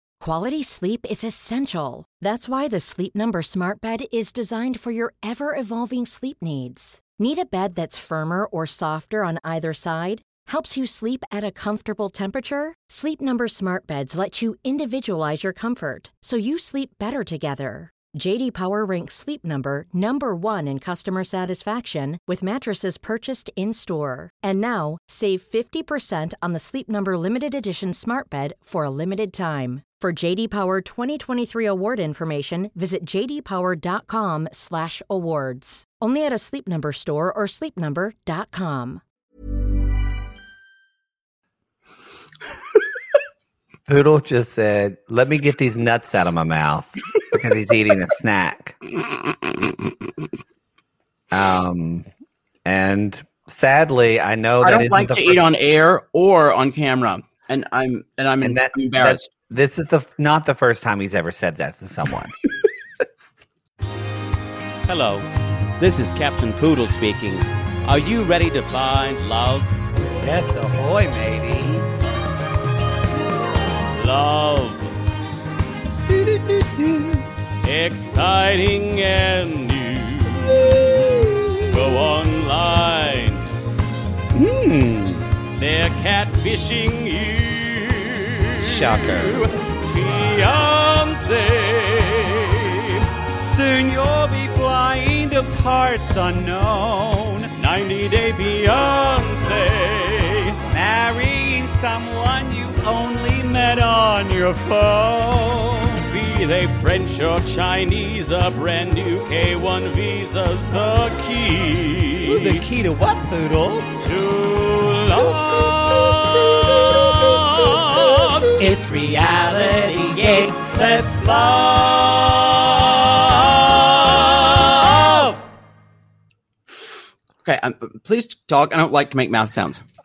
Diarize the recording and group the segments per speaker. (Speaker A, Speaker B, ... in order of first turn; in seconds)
Speaker A: 0.2-39.0
Speaker B: 43.9-48.8, 51.3-52.0, 52.6-55.4, 58.4-62.3, 70.2-71.9, 76.1-77.2, 80.7-81.7, 84.3-85.2, 88.6-89.5, 93.4-97.5, 100.7-106.0, 112.2-113.9, 115.2-121.0
Speaker C: 54.6-59.3, 127.4-129.8
Speaker D: 64.9-65.2, 65.8-69.7, 73.9-74.9, 77.6-81.1, 81.7-83.4, 85.6-93.0, 97.6-100.6, 106.1-112.6, 114.0-125.3